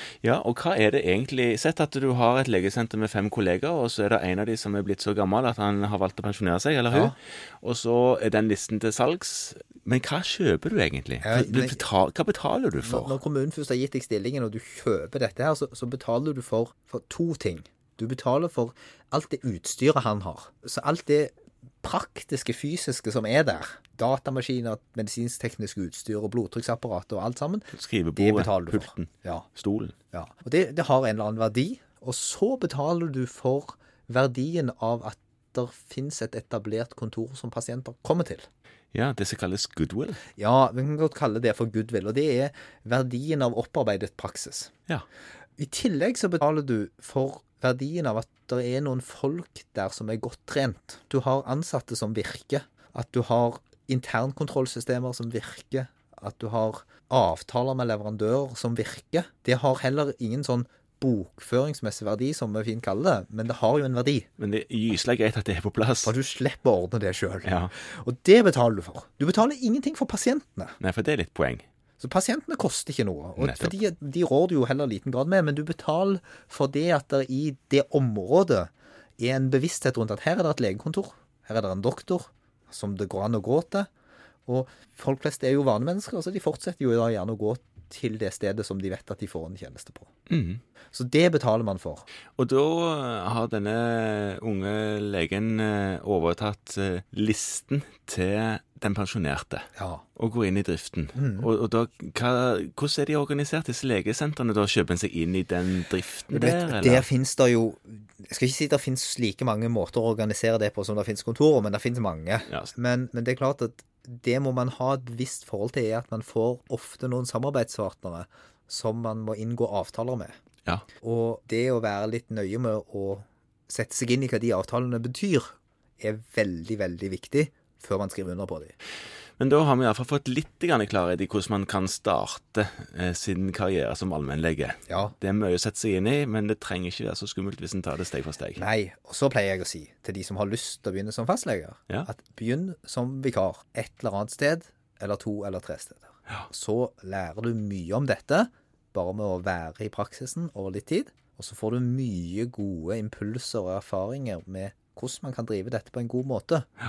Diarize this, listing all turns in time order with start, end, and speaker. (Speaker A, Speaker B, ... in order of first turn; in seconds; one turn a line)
Speaker A: 0.2-13.2
Speaker B: 11.2-11.9
Speaker B: 12.8-29.5
Speaker A: 27.7-29.9
Speaker B: 30.1-38.5
Speaker A: 38.9-40.2
Speaker B: 40.4-44.7
Speaker B: 45.6-64.3
Speaker A: 64.4-66.1
Speaker B: 66.0-70.8
Speaker A: 67.4-67.7
Speaker A: 70.8-71.7
Speaker B: 72.0-83.9
Speaker A: 73.4-73.7
Speaker B: 84.5-90.1
Speaker A: 90.3-90.6
Speaker B: 90.9-92.0
Speaker A: 92.4-107.1
Speaker B: 99.8-100.0
Speaker B: 101.2-101.5
Speaker B: 106.3-120.3
Speaker B: 121.0-128.8
Speaker A: 129.4-138.6
Speaker B: 134.9-135.2
Speaker B: 138.6-156.7